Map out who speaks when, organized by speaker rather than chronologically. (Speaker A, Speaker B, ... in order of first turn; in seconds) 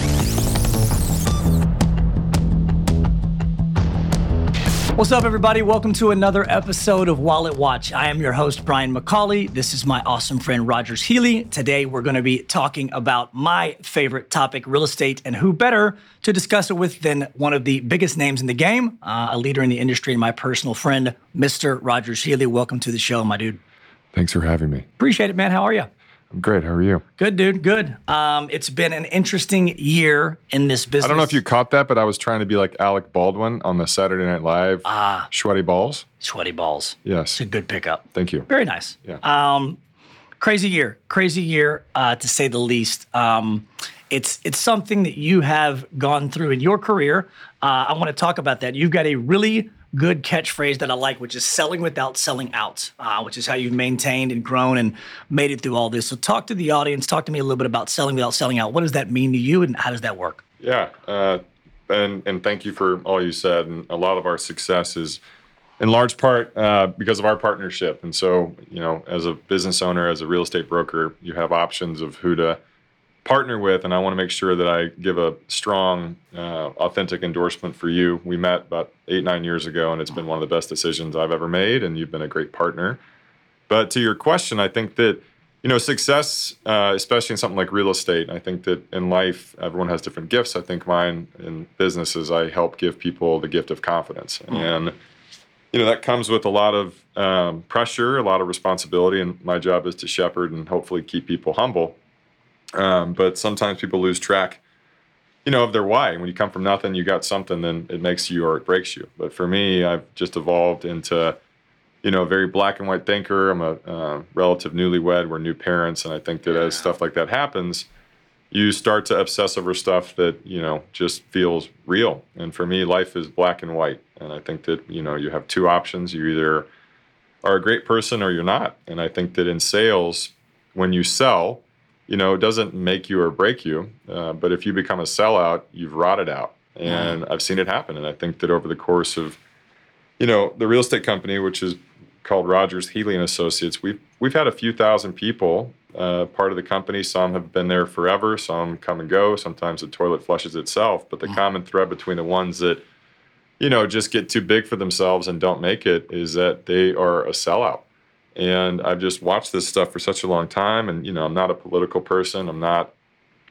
Speaker A: 5.0-23.6, 25.0-25.9, 27.2-31.4, 34.9-35.3, 36.2-39.8, 40.4-60.4, 136.9-137.2
Speaker B: 24.1-24.9, 26.3-27.0, 31.0-36.0, 37.0-37.4, 38.1-38.5, 60.6-65.2, 65.8-72.6, 73.2-83.0, 83.7-94.9, 95.7-102.0, 102.8-104.6, 105.5-111.4, 112.0-117.9, 118.5-126.7, 127.4-139.4, 140.2-152.8, 153.6-157.8, 158.4-162.9